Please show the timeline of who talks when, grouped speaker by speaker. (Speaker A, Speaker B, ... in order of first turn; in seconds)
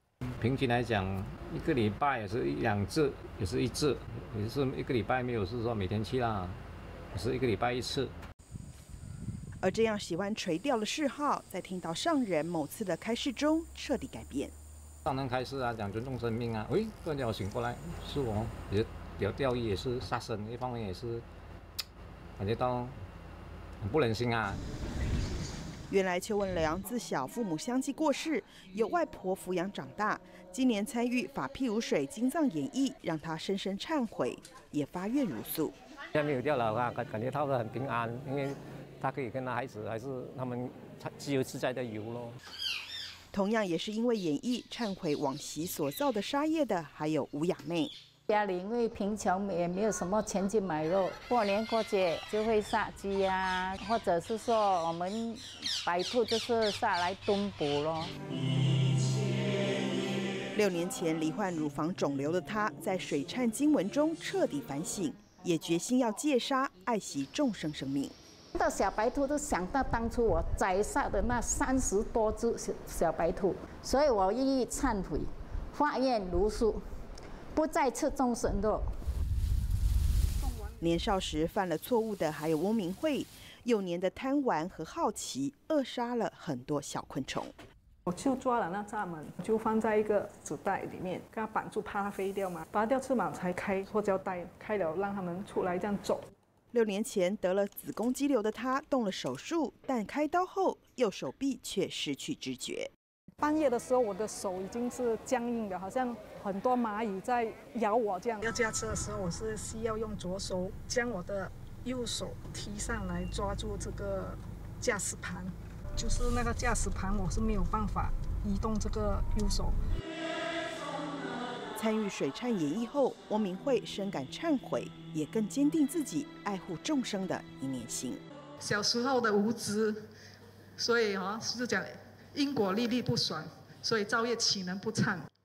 Speaker A: 0.4-6.6, 7.1-8.1, 15.1-21.2, 22.4-22.9, 23.8-24.6
Speaker B: 9.6-14.5, 25.9-35.7, 43.3-47.9, 60.5-68.1, 80.8-87.5, 96.7-102.9, 121.8-128.2
Speaker C: 36.1-42.4
Speaker D: 48.3-58.1, 68.5-76.8, 77.5-79.0
Speaker E: 88.1-96.2, 103.4-119.8, 128.6-130.1, 130.8-135.3